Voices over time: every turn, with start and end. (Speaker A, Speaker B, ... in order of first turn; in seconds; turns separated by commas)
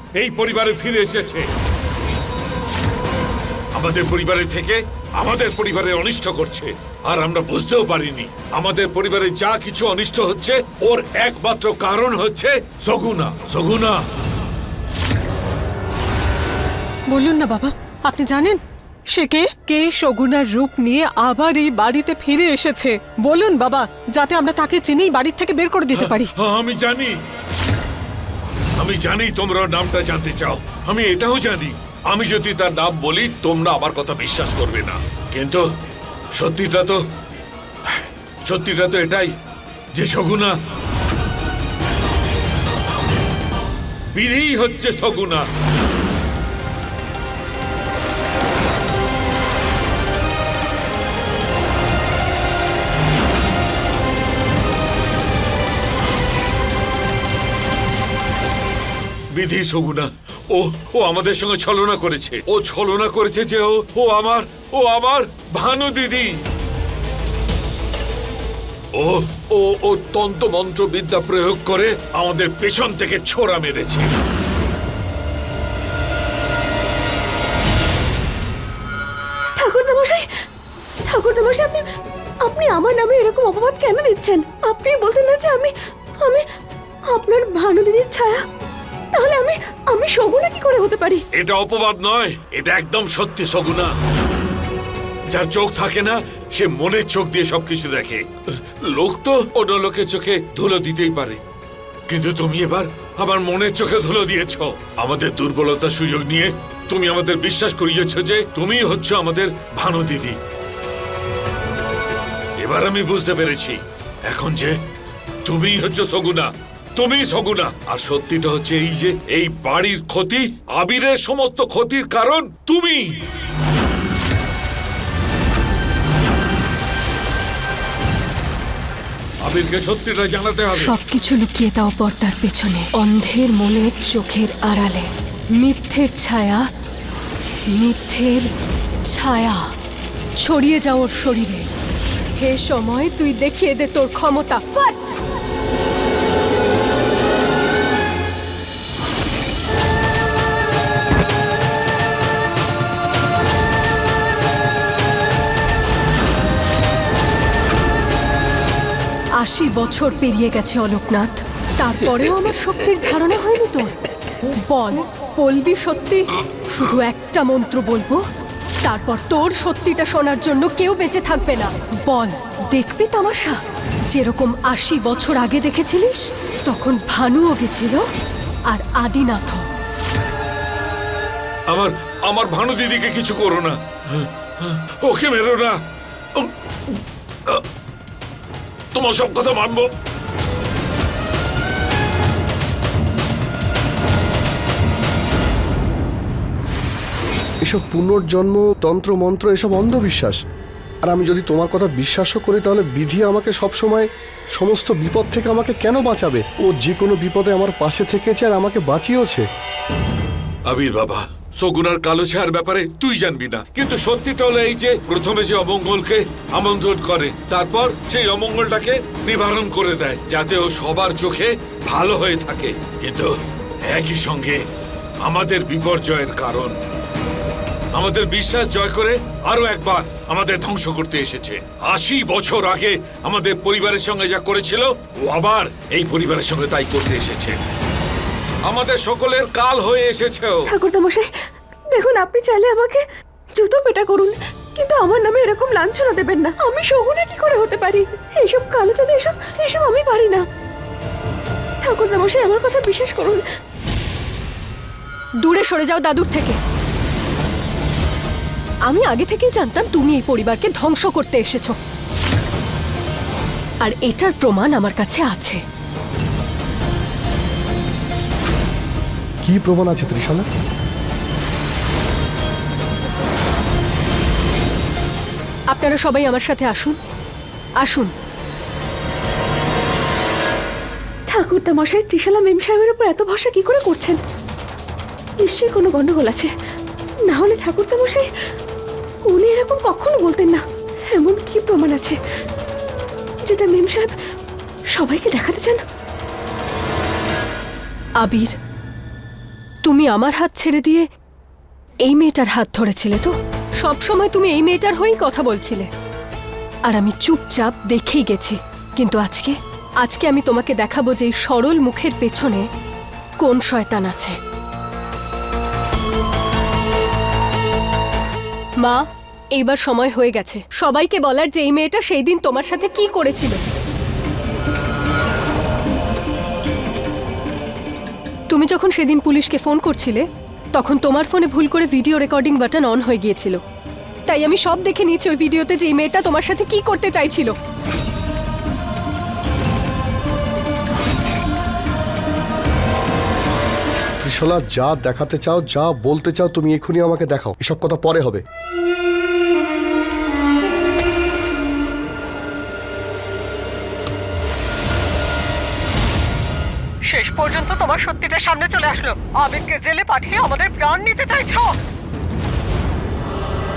Speaker A: 0.1-1.5, Speaker A: 3.8-14.0, Speaker B: 17.1-18.6, Speaker B: 19.1-26.3, Speaker A: 26.0-27.2, Speaker A: 28.8-35.6, Speaker A: 36.4-37.0, Speaker A: 37.9-39.3, Speaker A: 39.9-40.5, Speaker A: 44.1-45.5, Speaker A: 59.4-66.3, Speaker A: 69.0-74.1, Speaker C: 79.6-80.2, Speaker C: 81.1-81.8, Speaker C: 82.4-86.4, Speaker C: 87.1-88.4, Speaker C: 89.2-91.2, Speaker A: 91.3-94.0, Speaker A: 95.3-98.2, Speaker A: 98.9-101.4, Speaker A: 102.1-110.4, Speaker A: 112.6-113.8, Speaker A: 114.3-114.8, Speaker A: 115.5-123.2, Speaker A: 129.4-130.9, Speaker D: 130.8-136.7, Speaker D: 137.7-138.5, Speaker D: 139.1-139.6, Speaker D: 140.4-141.7, Speaker D: 142.4-145.2, Speaker D: 159.4-164.0, Speaker D: 164.5-168.2, Speaker D: 168.8-173.6, Speaker D: 174.1-178.1, Speaker D: 178.7-179.7, Speaker A: 181.7-185.8, Speaker A: 186.3-187.6, Speaker A: 188.9-189.9, Speaker E: 197.6-200.4, Speaker E: 201.1-209.5, Speaker A: 210.7-224.6, Speaker A: 225.2-226.7, Speaker A: 227.9-237.6, Speaker A: 238.7-240.7, Speaker C: 240.7-241.2, Speaker C: 241.9-243.0, Speaker C: 243.6-250.4, Speaker C: 251.8-253.4, Speaker D: 255.4-256.6, Speaker D: 258.9-261.8, Speaker D: 263.8-265.6, Speaker E: 269.4-270.5, Speaker D: 275.7-277.0, Speaker D: 277.8-278.1, Speaker C: 281.3-284.2, Speaker C: 285.4-286.5, Speaker C: 287.3-288.3, Speaker C: 289.3-292.2, Speaker C: 293.5-294.1, Speaker C: 294.9-295.8, Speaker D: 298.2-298.5, Speaker D: 299.8-301.1, Speaker D: 302.1-305.9, Speaker D: 306.9-312.7, Speaker D: 313.4-314.4, Speaker D: 319.6-323.6, Speaker D: 328.5-333.6, Speaker D: 334.3-337.6, Speaker E: 344.2-348.4, Speaker B: 357.1-361.7